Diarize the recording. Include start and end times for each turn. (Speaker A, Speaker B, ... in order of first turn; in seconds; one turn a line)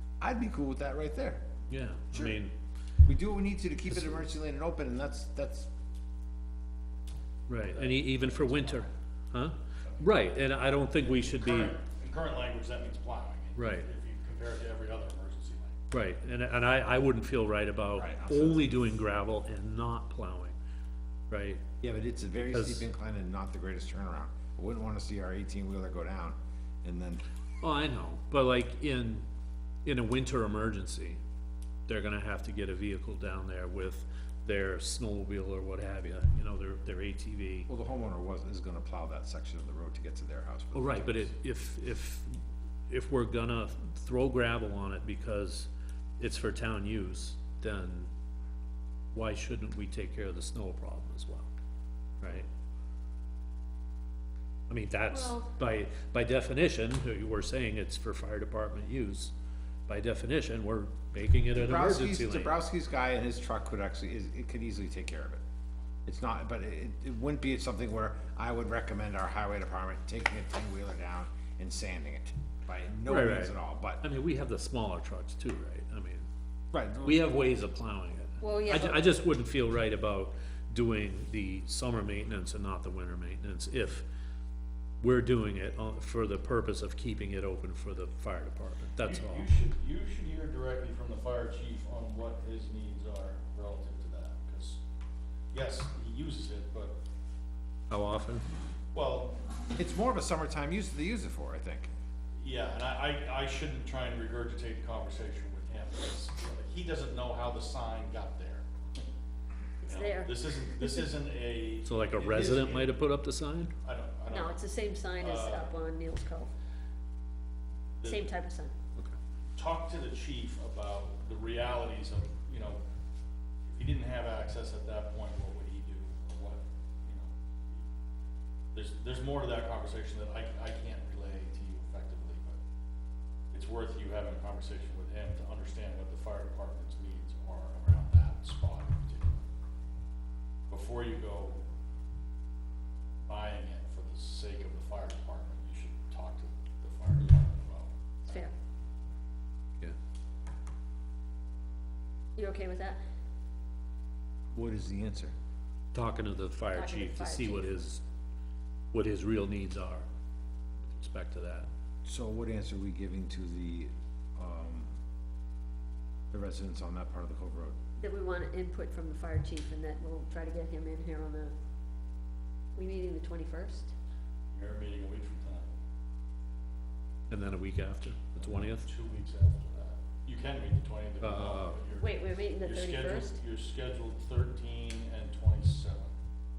Speaker A: 0.2-1.4
Speaker B: 1.7-2.5
Speaker A: 2.1-2.4
Speaker A: 3.0-5.7
Speaker B: 3.9-4.2
Speaker B: 7.5-11.7
Speaker C: 7.7-8.8
Speaker C: 11.2-15.8
Speaker B: 13.6-13.9
Speaker B: 15.9-20.6
Speaker A: 17.9-18.7
Speaker B: 21.3-21.6
Speaker A: 21.8-27.2
Speaker B: 22.5-22.9
Speaker B: 27.6-29.3
Speaker B: 29.8-31.2
Speaker B: 31.9-37.7
Speaker A: 37.7-41.3
Speaker B: 40.7-48.1
Speaker B: 49.1-51.5
Speaker B: 52.2-52.5
Speaker B: 54.7-59.3
Speaker D: 55.1-55.5
Speaker B: 59.9-62.5
Speaker A: 61.5-65.4
Speaker A: 66.0-74.0
Speaker B: 73.0-76.3
Speaker A: 76.7-77.3
Speaker B: 77.0-84.0
Speaker D: 78.4-79.0
Speaker B: 85.0-89.5
Speaker C: 89.0-94.8
Speaker C: 95.5-97.0
Speaker B: 97.9-98.5
Speaker C: 98.9-99.3
Speaker A: 99.8-101.9
Speaker C: 102.4-109.0
Speaker D: 109.8-110.4
Speaker C: 109.9-113.0
Speaker B: 111.8-113.7
Speaker C: 113.8-114.6
Speaker D: 114.3-116.5
Speaker C: 115.1-115.7
Speaker C: 118.0-118.3
Speaker D: 118.0-118.7
Speaker C: 119.5-122.8
Speaker C: 123.7-127.8
Speaker C: 128.7-132.6
Speaker C: 133.5-139.4
Speaker C: 140.7-141.6
Speaker C: 143.2-148.4
Speaker D: 148.3-148.5
Speaker D: 152.3-153.0
Speaker A: 154.5-155.3
Speaker B: 155.9-158.0
Speaker D: 156.7-157.8
Speaker B: 158.9-160.1
Speaker B: 160.8-161.7
Speaker A: 162.0-164.9
Speaker A: 166.3-167.8
Speaker D: 168.0-171.5
Speaker D: 172.8-173.9
Speaker C: 174.5-175.7
Speaker B: 177.3-178.9
Speaker C: 178.4-186.1
Speaker B: 181.2-181.8
Speaker D: 181.9-183.4